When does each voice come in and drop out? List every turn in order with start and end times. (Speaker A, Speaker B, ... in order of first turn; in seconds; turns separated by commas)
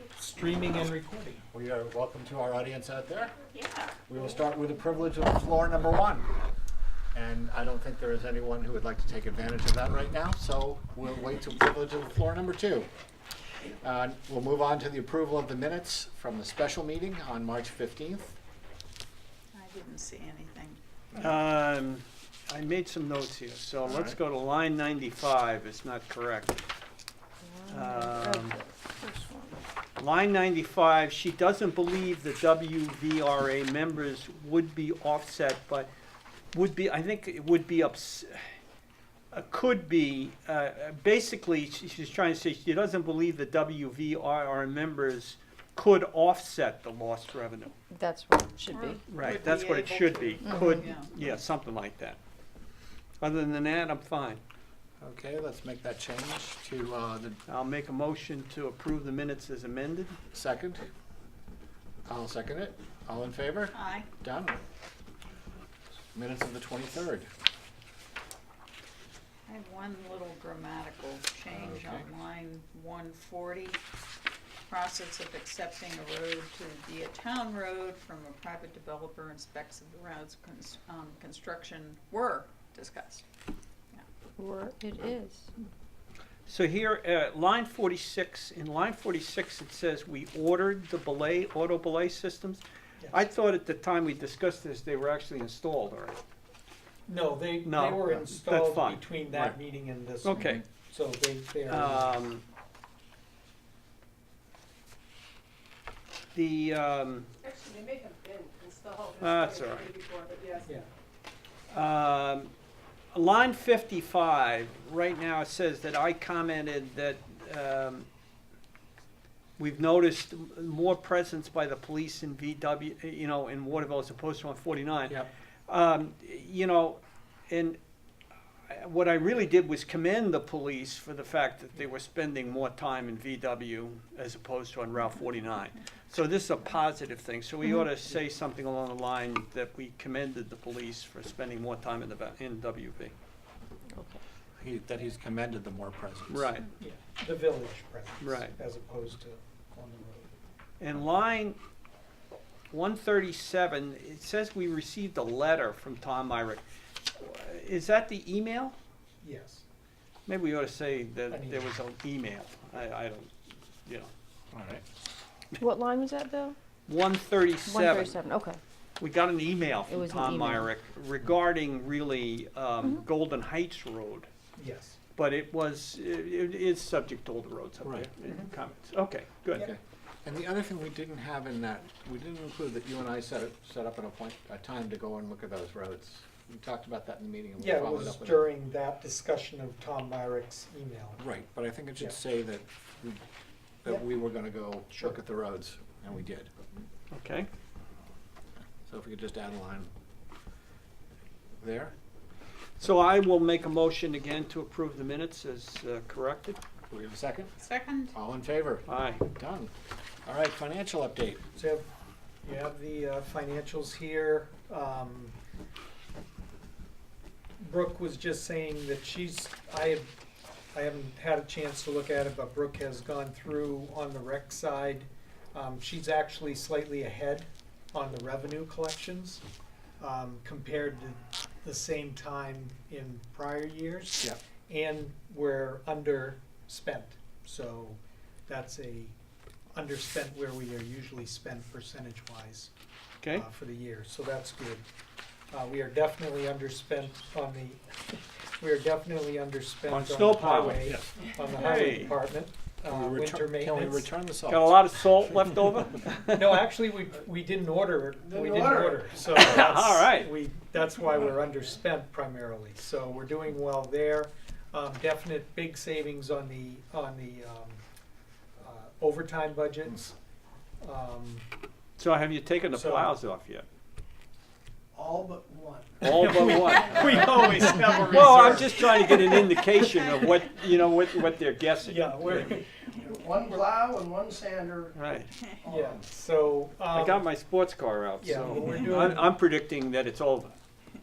Speaker A: 0.1-1.4, Speaker B: 1.5-3.4, Speaker C: 3.5-3.9, Speaker B: 4.1-6.3, Speaker B: 7.1-12.9, Speaker B: 13.8-18.3, Speaker C: 19.5-20.8, Speaker D: 21.1-26.6, Speaker B: 23.8-24.2, Speaker E: 27.4-29.6, Speaker D: 27.7-28.6, Speaker D: 30.0-35.9, Speaker D: 36.5-38.5, Speaker D: 39.3-47.8, Speaker E: 47.9-49.0, Speaker C: 48.7-51.1, Speaker D: 49.1-52.2, Speaker E: 50.5-50.8, Speaker D: 53.2-54.4, Speaker B: 55.0-57.4, Speaker D: 57.5-60.2, Speaker B: 60.3-60.8, Speaker B: 62.1-64.6, Speaker C: 63.7-64.1, Speaker B: 66.1-67.3, Speaker C: 69.5-73.8, Speaker B: 71.5-72.0, Speaker C: 74.7-83.2, Speaker E: 84.4-85.5, Speaker D: 86.5-96.2, Speaker A: 97.1-102.3, Speaker D: 97.6-99.5, Speaker D: 100.2-100.6, Speaker D: 101.7-102.4, Speaker D: 106.3-107.3, Speaker F: 107.4-110.6, Speaker D: 109.2-110.0, Speaker D: 111.7-112.5, Speaker D: 113.1-118.1, Speaker D: 119.6-127.8, Speaker D: 128.7-143.1, Speaker B: 144.6-146.5, Speaker D: 146.3-146.7, Speaker A: 146.8-150.3, Speaker D: 148.2-148.5, Speaker D: 150.8-151.6, Speaker D: 152.7-156.6, Speaker D: 157.2-158.8, Speaker A: 159.2-159.6, Speaker D: 160.3-163.3, Speaker A: 161.3-161.7, Speaker B: 164.5-164.8, Speaker E: 165.6-166.6, Speaker D: 166.9-168.2, Speaker E: 167.7-168.6, Speaker D: 169.0-174.3, Speaker E: 169.9-170.7, Speaker A: 174.6-175.0, Speaker D: 175.2-179.7, Speaker B: 177.8-178.1, Speaker B: 179.5-188.4, Speaker A: 187.6-191.2, Speaker B: 191.2-193.2, Speaker B: 193.8-196.5, Speaker D: 197.1-197.5, Speaker B: 198.9-199.9, Speaker B: 201.6-201.9, Speaker D: 202.8-206.6, Speaker B: 206.9-207.5, Speaker C: 207.6-208.1, Speaker B: 208.1-209.7, Speaker D: 208.9-209.3, Speaker B: 210.2-211.4, Speaker A: 211.6-211.9, Speaker A: 212.4-215.3, Speaker A: 217.6-220.1, Speaker A: 220.7-229.4, Speaker A: 230.0-239.1, Speaker A: 239.7-242.7, Speaker A: 243.3-244.8, Speaker A: 245.5-254.1, Speaker D: 249.9-251.0, Speaker B: 250.7-251.1, Speaker D: 251.6-252.2, Speaker B: 252.8-255.5, Speaker D: 254.5-256.6, Speaker A: 256.3-267.8, Speaker F: 258.2-259.4, Speaker D: 259.4-260.3, Speaker A: 268.6-270.1, Speaker A: 270.8-271.4, Speaker D: 272.0-273.6, Speaker A: 272.7-273.1, Speaker F: 274.9-278.5, Speaker D: 276.0-277.3, Speaker A: 276.0-280.1, Speaker D: 278.1-282.5, Speaker A: 281.8-282.6, Speaker F: 282.2-285.0, Speaker D: 284.9-285.3, Speaker F: 285.6-286.0, Speaker A: 285.6-287.3, Speaker D: 286.9-290.6, Speaker A: 288.2-289.3